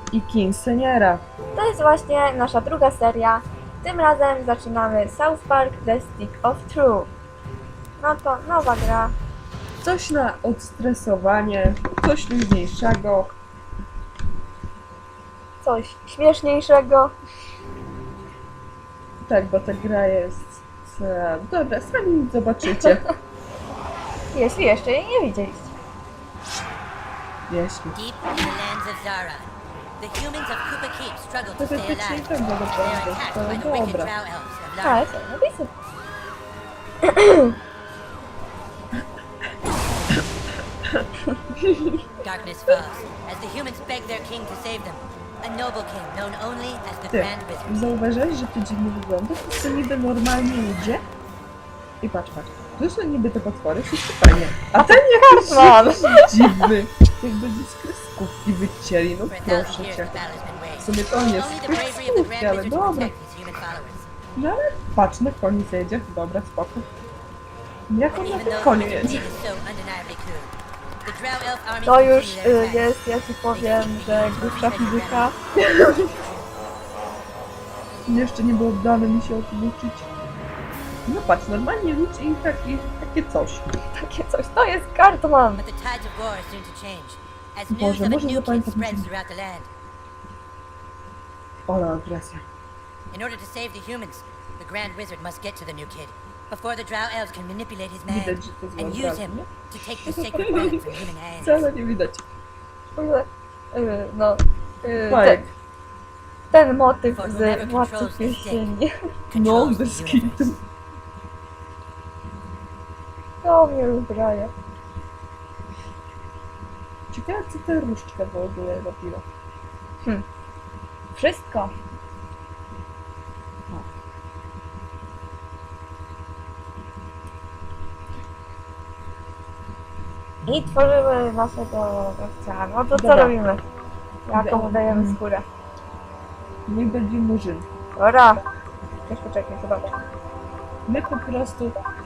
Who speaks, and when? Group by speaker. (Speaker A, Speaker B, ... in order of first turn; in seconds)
Speaker A: 0.1-1.2, 9.8-13.3, 19.2-23.1, 27.5-28.0, 31.6-34.1, 41.6-41.9, 47.1-51.0, 52.0-60.1, 60.8-63.1, 64.3-66.8, 67.9-69.3, 75.6-76.1, 78.1-80.1, 81.1-83.7, 87.7-89.1, 91.7-92.5, 98.1-99.5, 100.1-100.8, 101.4-102.2, 105.1-105.5, 109.3-110.6, 117.1-119.2, 132.9-133.3, 134.3-135.2, 136.7-137.7, 140.9-141.8
Speaker B: 1.5-7.1, 8.0-9.1, 15.6-17.1, 24.3-25.7, 34.8-35.7, 37.0-37.5, 54.8-56.7, 71.8-75.3, 84.0-85.6, 102.9-105.4, 106.5-108.9, 113.4-114.5, 121.2-121.7, 130.4-133.6, 134.2-135.4, 137.9-138.4, 139.1-139.9
Speaker C: 27.9-35.1, 42.2-47.9, 59.3-64.1, 68.1-70.5, 71.0-73.0, 73.5-76.4, 85.5-89.7, 93.1-101.7, 107.1-108.6, 109.3-110.5